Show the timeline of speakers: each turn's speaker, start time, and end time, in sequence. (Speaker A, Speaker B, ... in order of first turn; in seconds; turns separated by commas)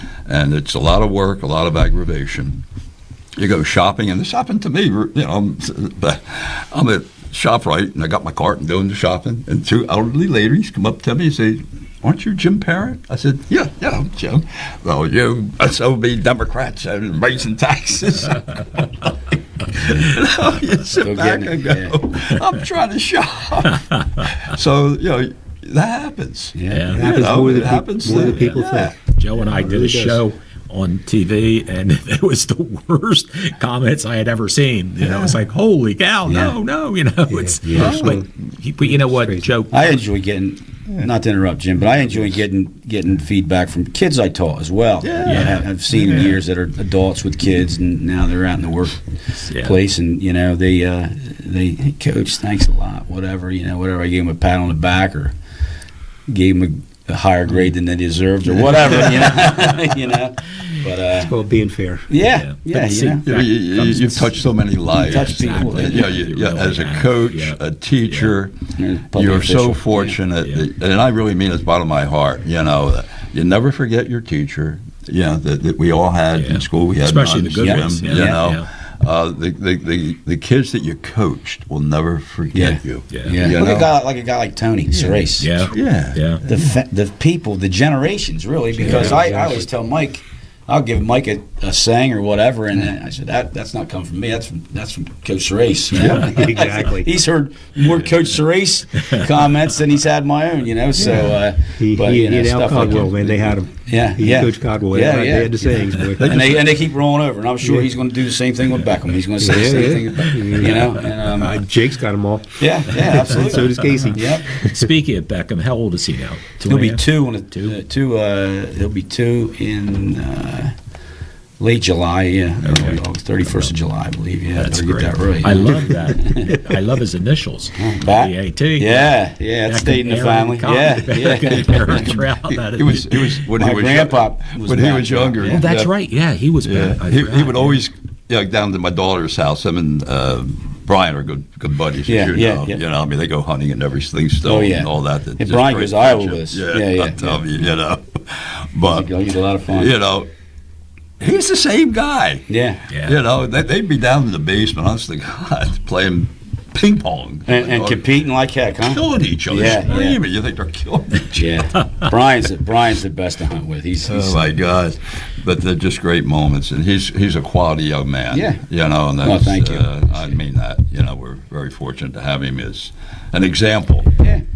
Speaker A: 0.3-2.6, Speaker A: 3.4-28.9, Speaker B: 20.9-22.0, Speaker C: 23.9-24.3, Speaker B: 26.6-26.9, Speaker C: 26.7-27.2, Speaker D: 26.9-30.2, Speaker C: 28.1-40.0, Speaker A: 35.0-35.4, Speaker B: 36.2-36.5, Speaker D: 37.3-38.2, Speaker A: 37.7-38.2, Speaker D: 38.9-39.5, Speaker B: 39.7-55.3, Speaker A: 45.0-46.4, Speaker C: 45.2-45.6, Speaker C: 49.4-49.8, Speaker B: 56.3-61.3, Speaker D: 61.2-62.1, Speaker B: 62.1-63.2, Speaker C: 62.3-68.3, Speaker A: 63.2-68.6, Speaker B: 64.9-66.1, Speaker B: 68.8-70.2, Speaker A: 69.1-83.9, Speaker C: 70.4-70.7, Speaker C: 76.3-78.7, Speaker B: 77.6-78.4, Speaker B: 82.5-85.7, Speaker C: 83.1-83.4, Speaker A: 84.9-86.6, Speaker C: 85.4-86.4, Speaker B: 86.5-111.6, Speaker D: 88.7-89.6, Speaker D: 95.9-97.1, Speaker A: 97.8-98.2, Speaker D: 101.0-106.5, Speaker D: 107.6-107.9, Speaker D: 109.4-114.6, Speaker B: 112.6-114.5, Speaker C: 114.5-117.8, Speaker B: 116.7-120.7, Speaker B: 121.6-126.6, Speaker C: 122.6-123.0, Speaker C: 124.5-133.4, Speaker B: 127.8-132.0, Speaker A: 131.4-135.9, Speaker B: 133.6-135.6, Speaker C: 135.4-137.8, Speaker A: 136.6-149.1, Speaker B: 142.1-142.8, Speaker B: 144.4-147.4, Speaker B: 148.8-149.9, Speaker A: 149.7-150.3, Speaker A: 151.2-152.5, Speaker B: 152.5-152.8, Speaker C: 152.9-153.2, Speaker A: 153.0-158.1, Speaker B: 157.4-160.2, Speaker A: 158.8-161.6, Speaker B: 161.3-164.5, Speaker A: 164.1-174.1, Speaker B: 168.3-168.6, Speaker B: 169.2-170.3